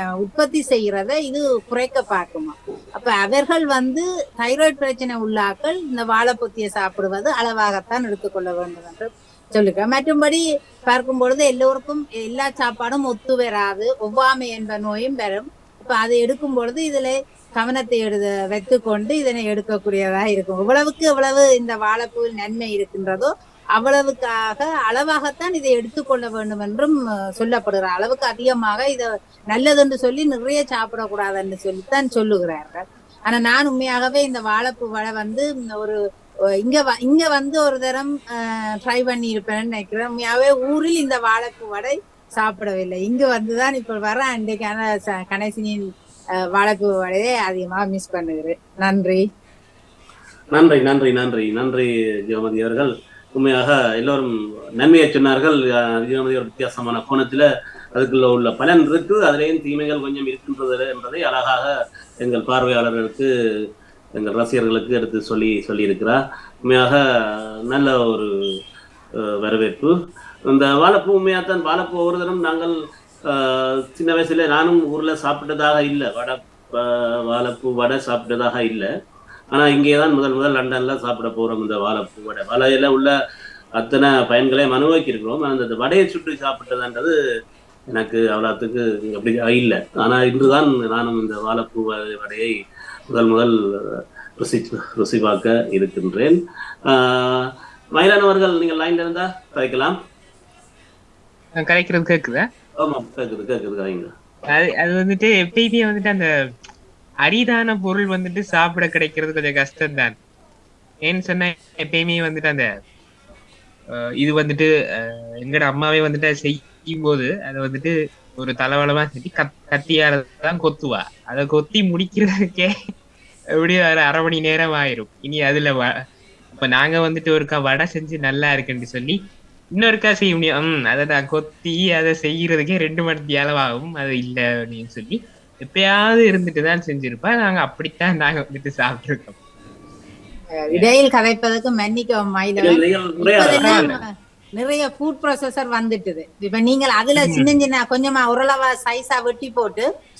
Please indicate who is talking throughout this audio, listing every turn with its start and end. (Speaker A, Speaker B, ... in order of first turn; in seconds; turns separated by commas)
Speaker A: 0.2-36.0, Speaker A: 36.6-45.8, Speaker A: 46.5-49.2, Speaker B: 50.5-63.3, Speaker B: 64.2-68.3, Speaker B: 69.4-69.9, Speaker B: 70.5-72.7, Speaker B: 73.3-78.9, Speaker B: 79.5-83.1, Speaker B: 83.8-87.1, Speaker B: 87.9-92.5, Speaker B: 93.1-93.5, Speaker B: 94.4-97.4, Speaker B: 97.9-100.0, Speaker C: 101.5-102.5, Speaker B: 102.8-104.1, Speaker C: 104.5-106.3, Speaker C: 107.2-110.2, Speaker C: 111.0-112.7, Speaker C: 113.9-122.8, Speaker C: 123.6-126.0, Speaker C: 126.6-129.2, Speaker C: 129.7-139.4, Speaker A: 140.5-149.9, Speaker B: 142.6-144.0, Speaker C: 143.6-143.9, Speaker C: 147.2-147.6